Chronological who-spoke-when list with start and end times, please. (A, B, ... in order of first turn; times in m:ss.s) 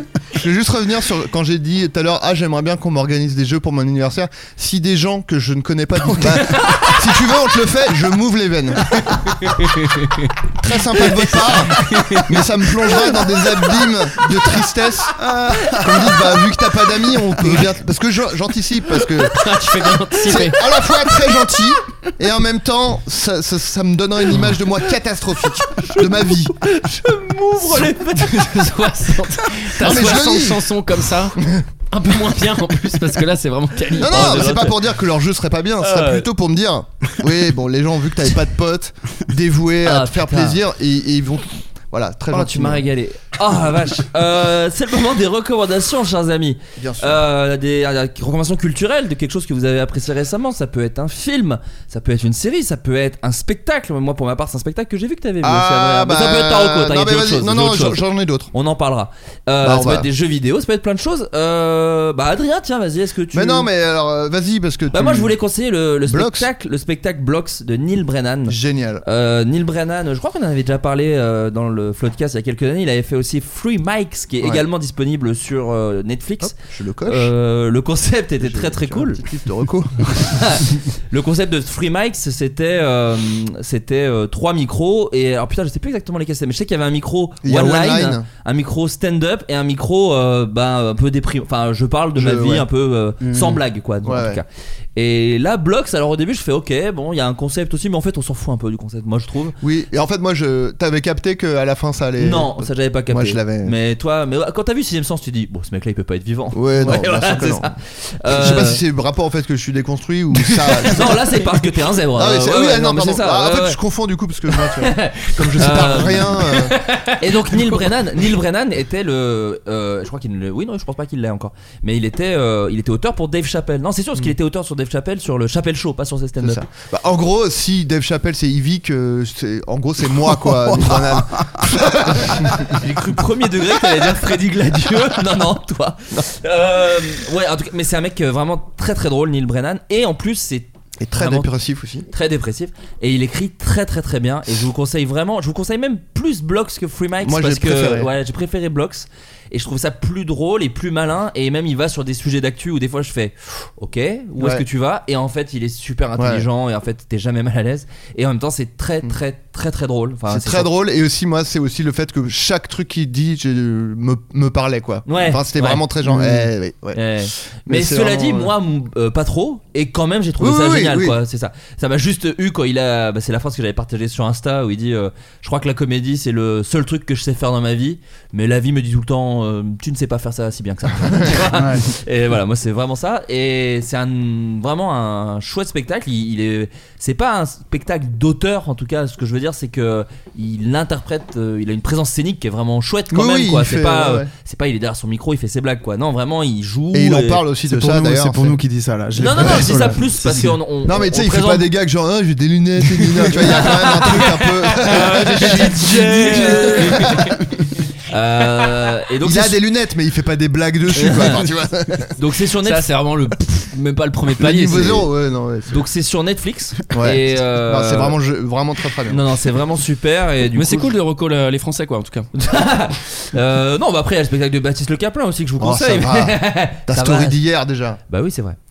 0:00.3-0:09.2 A
0:06.0-0:06.8 B
0:06.4-0:06.9 C
0:09.4-0:10.3 C
0:10.6-0:15.2 A
0:11.0-0:13.0 C
0:15.2-0:16.4 B
0:15.8-0:19.4 A
0:19.3-0:20.6 C
0:20.2-0:26.6 A
0:25.9-0:28.6 D
0:28.2-0:34.6 C
0:29.8-0:30.7 A
0:31.4-0:31.6 A
0:34.0-0:42.9 A
0:34.1-0:34.8 D
0:35.8-0:36.3 D
0:39.8-0:40.6 D
0:42.3-1:03.7 D
0:46.8-0:47.2 A
0:55.4-0:58.5 A
0:59.6-1:00.1 A
1:03.3-1:05.3 A
1:04.9-1:16.6 D
1:06.1-1:06.5 A
1:08.5-1:09.0 A
1:16.4-1:17.3 A
1:17.1-1:19.2 D
1:18.4-1:20.6 A
1:20.2-1:39.6 D
1:27.4-1:28.2 A
1:32.2-1:32.7 A
1:33.2-1:33.6 B
1:34.0-1:34.4 A
1:39.6-1:43.7 A
1:42.2-1:48.8 D
1:46.5-1:47.8 A
1:48.3-1:51.5 A
1:50.9-1:53.8 D
1:52.1-1:56.8 A
1:54.8-1:56.6 D
1:57.2-2:06.6 D
2:06.4-2:12.9 A
2:10.3-2:11.7 B
2:12.4-2:21.5 D
2:21.0-2:22.1 A
2:22.1-2:40.7 D
2:27.2-2:28.1 A
2:34.4-2:34.6 A
2:36.2-2:36.5 A
2:40.3-2:47.1 A
2:45.0-3:17.4 D
2:47.7-2:48.5 A
2:50.4-2:51.2 A
3:01.5-3:01.9 B
3:13.1-3:14.3 A
3:16.9-3:18.6 A
3:17.6-3:20.6 B
3:19.2-3:21.7 D
3:20.8-3:27.3 A
3:24.9-3:27.3 C
3:25.4-3:27.1 D
3:26.0-3:26.4 B
3:28.1-3:29.6 D
3:29.2-3:32.1 A
3:31.0-3:31.3 D
3:32.2-3:32.8 D
3:32.6-3:35.1 C
3:34.4-3:35.8 A
3:35.7-3:38.2 D
3:36.9-3:39.2 A
3:39.1-3:40.9 D
3:40.5-3:42.3 C
3:42.4-3:47.4 D
3:45.6-3:48.0 A
3:48.1-3:48.6 D